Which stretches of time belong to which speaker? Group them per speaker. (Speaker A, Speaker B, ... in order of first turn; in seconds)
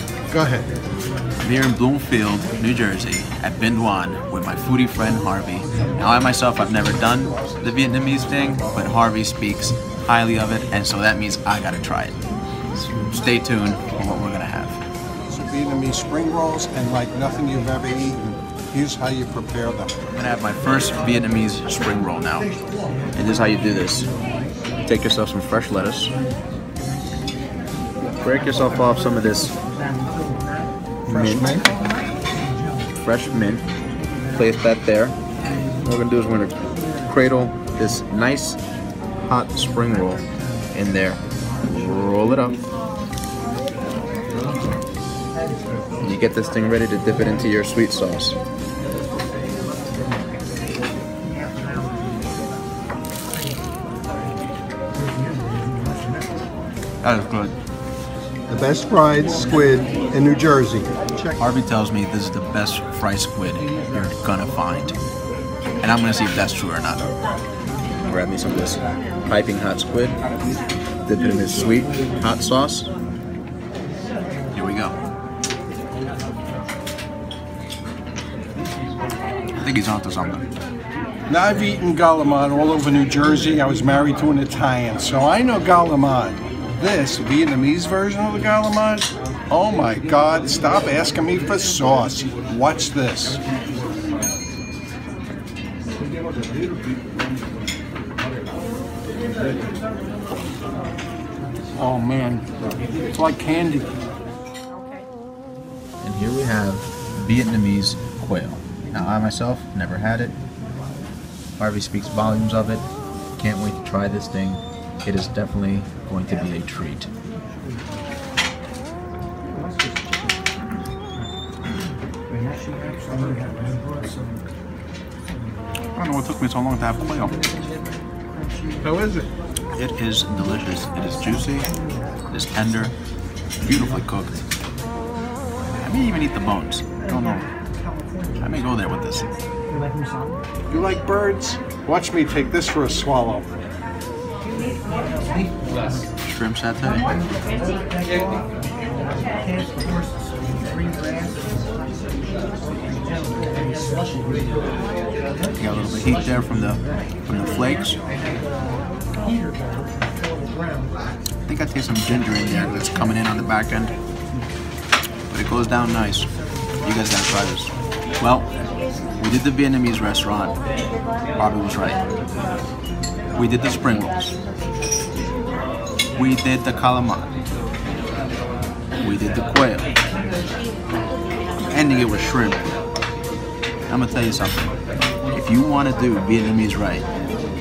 Speaker A: 0.3-0.7, 15.3-19.9, 31.1-31.7, 58.5-61.4, 81.3-93.4, 101.8-102.5, 103.1-103.9, 128.8-129.3, 140.7-143.5
Speaker B: 1.4-12.2, 12.8-14.8, 20.1-22.5, 23.2-24.1, 24.9-26.1, 28.1-29.5, 31.1-31.6, 33.0-33.6, 34.4-35.2, 35.8-36.5, 37.1-38.6, 39.2-42.6, 46.0-48.4, 57.0-57.5, 61.4-65.0, 65.8-67.1, 68.1-70.2, 71.0-72.9, 74.5-75.0, 79.6-80.4, 106.0-110.3, 111.6-112.9, 113.4-117.1, 126.0-127.4, 129.8-131.7, 132.3-132.9, 133.7-134.4, 135.8-137.5, 138.4-139.3, 146.2-147.1, 155.6-158.0, 161.5-163.9, 165.3-166.3, 166.8-168.5, 169.2-170.6, 171.3-172.0, 173.4-174.3, 176.2-177.3, 179.0-179.9, 181.7-182.6, 183.9-184.7, 185.3-187.1